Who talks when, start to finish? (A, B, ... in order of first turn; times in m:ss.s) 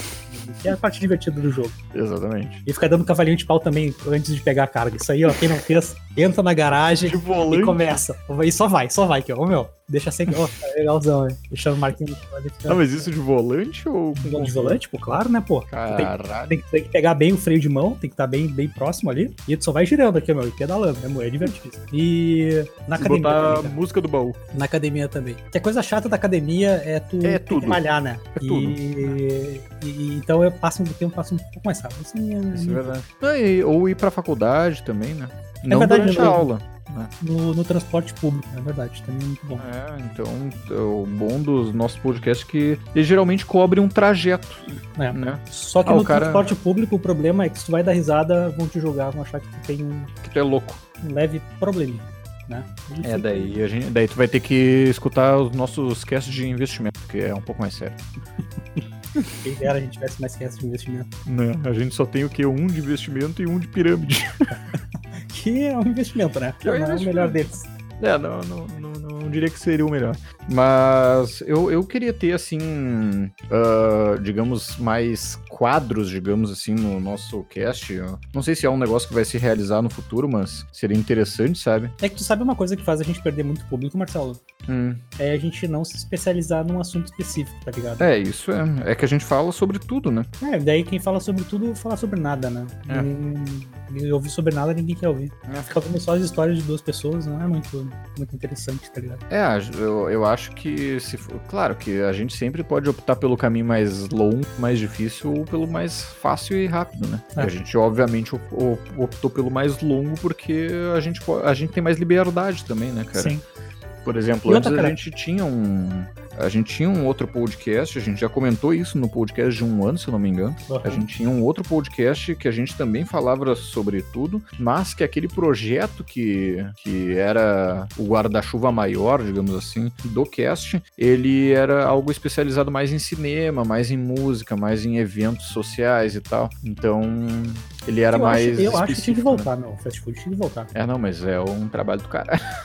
0:00.3-0:01.8 A
0:01.9-0:02.6 B
0:02.6-0:13.0 A
0:06.9-0:07.9 B
0:12.7-0:14.8 B
0:14.2-0:23.8 A
0:15.7-0:16.5 B
0:23.0-0:24.4 B
0:24.5-0:32.9 A
0:27.2-0:27.8 B
0:28.4-0:29.2 B
0:32.5-0:37.1 B
0:35.7-0:36.5 A
0:37.2-0:39.6 A
0:39.6-0:46.5 B
0:45.0-0:50.1 A
0:50.2-0:50.8 B
0:51.0-0:53.6 A
0:53.0-0:58.0 B
0:59.4-1:01.1 A
1:01.2-1:04.5 B
1:05.3-1:07.6 A
1:06.6-1:07.5 B
1:08.0-1:21.9 B
1:22.0-1:24.4 A
1:24.7-1:25.0 B
1:25.2-1:28.1 A
1:28.0-1:30.3 B
1:30.4-1:39.2 A
1:35.5-1:35.7 B
1:39.3-1:53.3 B
1:53.1-1:53.4 A
1:54.0-2:19.5 B
1:54.5-1:55.0 A
2:00.7-2:01.0 A
2:18.1-2:20.7 A
2:20.7-2:22.4 B